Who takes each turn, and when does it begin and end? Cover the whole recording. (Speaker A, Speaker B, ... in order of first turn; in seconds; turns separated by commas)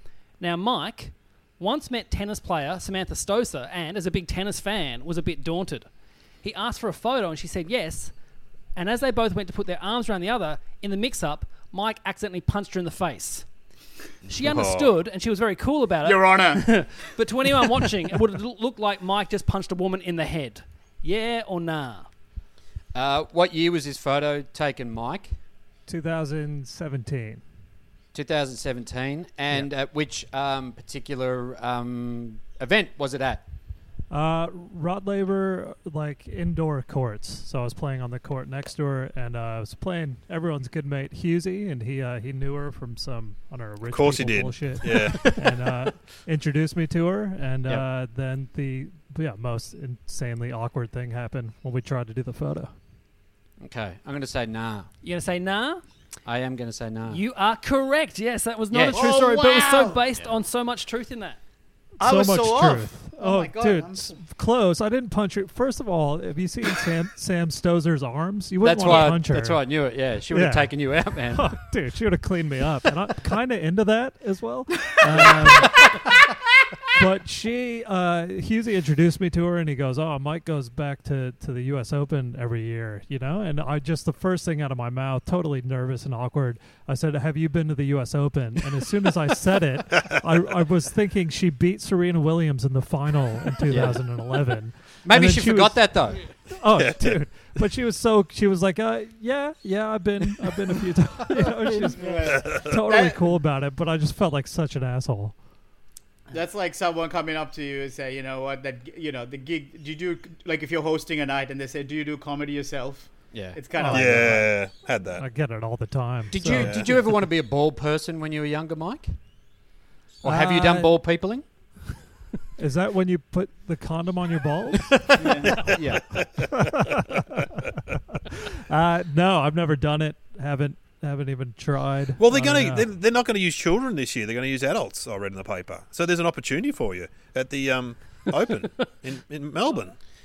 Speaker A: 0.4-5.9, Speaker A: 6.4-8.1, Speaker A: 8.8-13.5, Speaker A: 14.3-22.1, Speaker B: 14.3-14.9, Speaker C: 16.0-16.8, Speaker D: 22.9-25.3, Speaker E: 25.9-27.4, Speaker D: 28.1-33.4, Speaker E: 34.1-52.7, Speaker B: 43.9-45.4, Speaker D: 53.6-54.9, Speaker A: 55.0-55.8, Speaker D: 56.3-57.2, Speaker A: 57.1-61.4, Speaker D: 58.7-59.1, Speaker C: 58.9-60.0, Speaker E: 62.0-76.0, Speaker C: 62.0-64.2, Speaker D: 68.6-71.5, Speaker D: 75.2-75.4, Speaker E: 77.0-105.4, Speaker D: 93.7-94.5, Speaker D: 95.0-96.2, Speaker B: 96.7-97.5, Speaker C: 101.9-103.4, Speaker B: 102.3-102.7, Speaker C: 106.3-114.5, Speaker D: 113.3-114.2, Speaker E: 113.7-114.4, Speaker B: 113.9-115.2, Speaker E: 115.2-116.9, Speaker D: 116.3-119.1, Speaker B: 116.4-117.0, Speaker D: 120.2-121.5, Speaker E: 120.2-121.0, Speaker E: 122.6-125.7, Speaker C: 125.2-125.7, Speaker D: 125.6-126.2, Speaker B: 126.1-126.5, Speaker E: 126.5-127.4, Speaker E: 128.7-132.9, Speaker B: 132.2-140.0